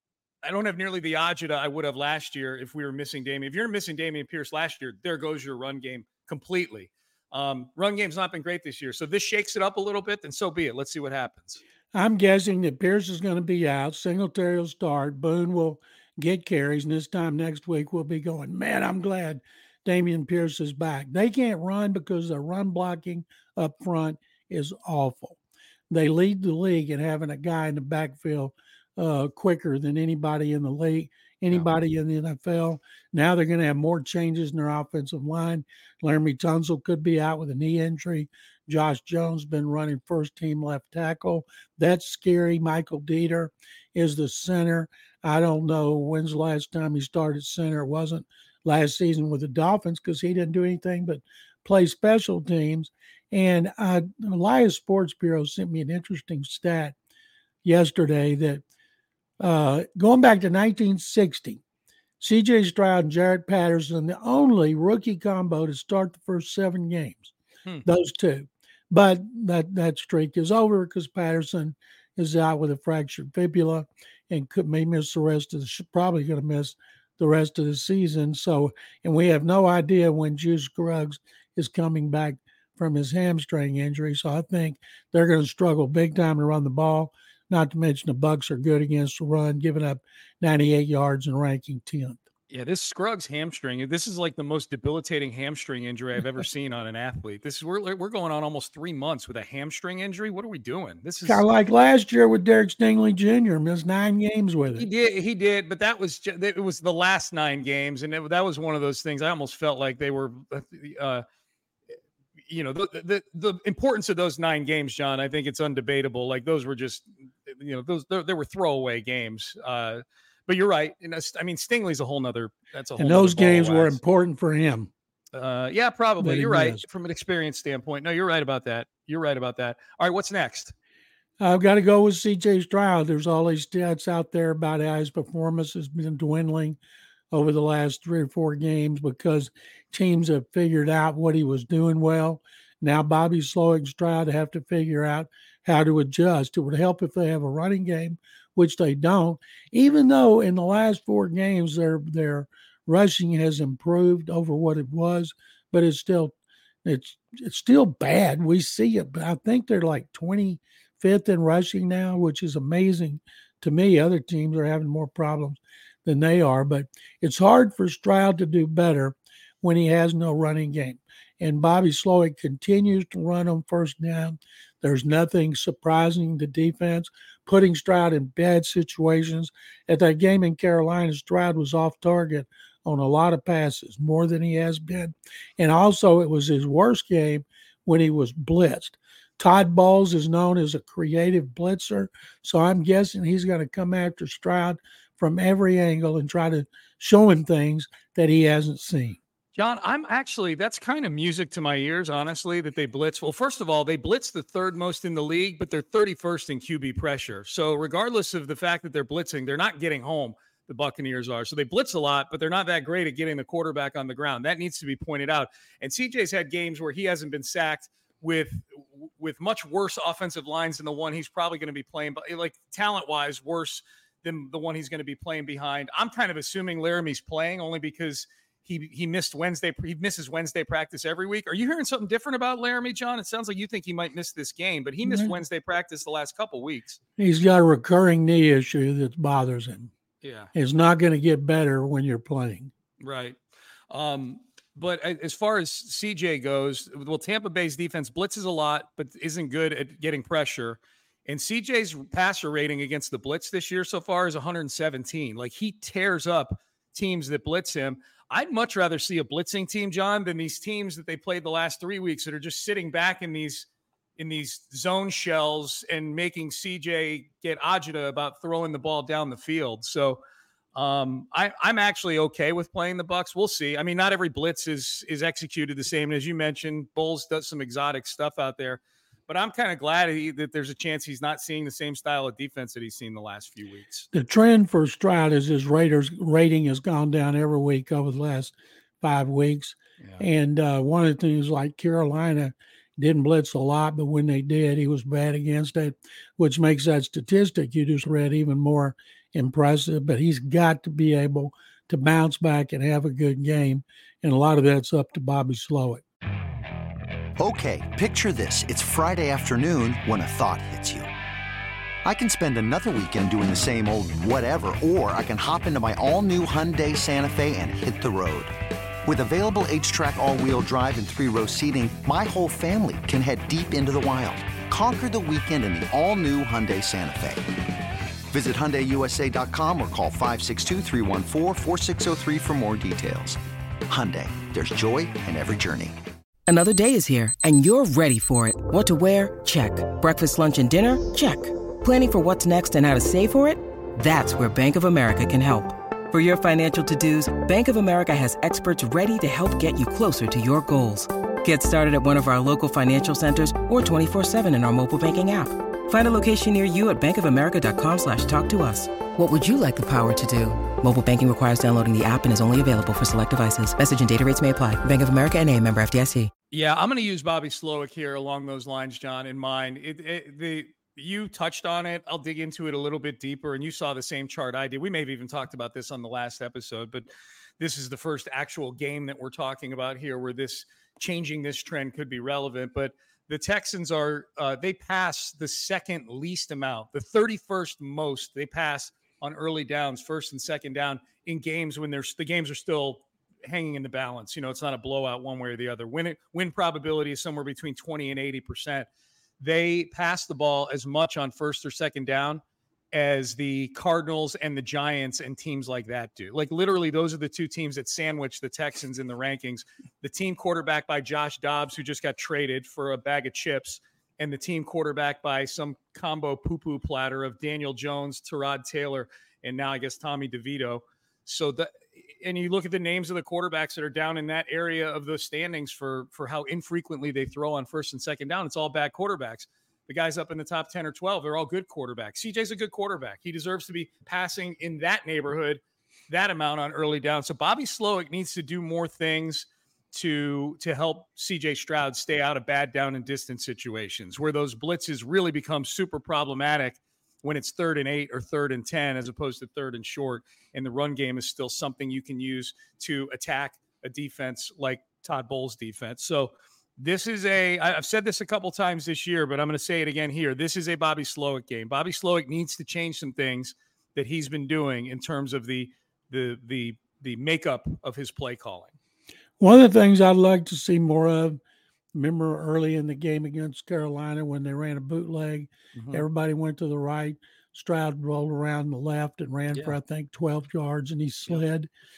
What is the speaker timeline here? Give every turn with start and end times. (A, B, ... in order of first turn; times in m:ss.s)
0:00.4-0:11.6 A
0:11.9-0:25.4 B
0:25.9-0:57.0 B
0:57.6-0:58.6 B
0:59.4-1:01.6 B
1:02.2-1:07.3 B
1:07.8-1:32.2 B
1:32.5-1:41.4 A
1:41.2-1:44.9 B
1:44.8-1:51.2 A
1:52.5-2:04.0 A
2:03.0-2:04.9 B
2:05.3-2:10.7 A
2:06.2-2:06.8 B
2:11.4-2:16.8 B
2:17.3-3:19.2 B
3:19.5-3:57.0 A
3:55.0-3:55.3 B
3:57.2-3:59.9 B
4:00.2-4:00.5 A
4:00.5-4:02.7 B
4:03.0-4:03.4 A
4:03.9-4:30.2 A
4:30.7-4:44.1 A
4:44.1-5:06.0 B
4:50.0-4:50.2 A
5:07.4-5:11.1 C
5:12.0-5:18.5 C
5:19.0-5:27.4 C
5:28.3-5:36.0 C
5:36.5-6:06.3 D
6:06.5-6:17.1 A
6:17.6-6:38.9 A
6:39.4-7:48.7 A
7:49.4-7:51.4 B
7:51.9-8:01.7 B
7:55.8-7:56.0 A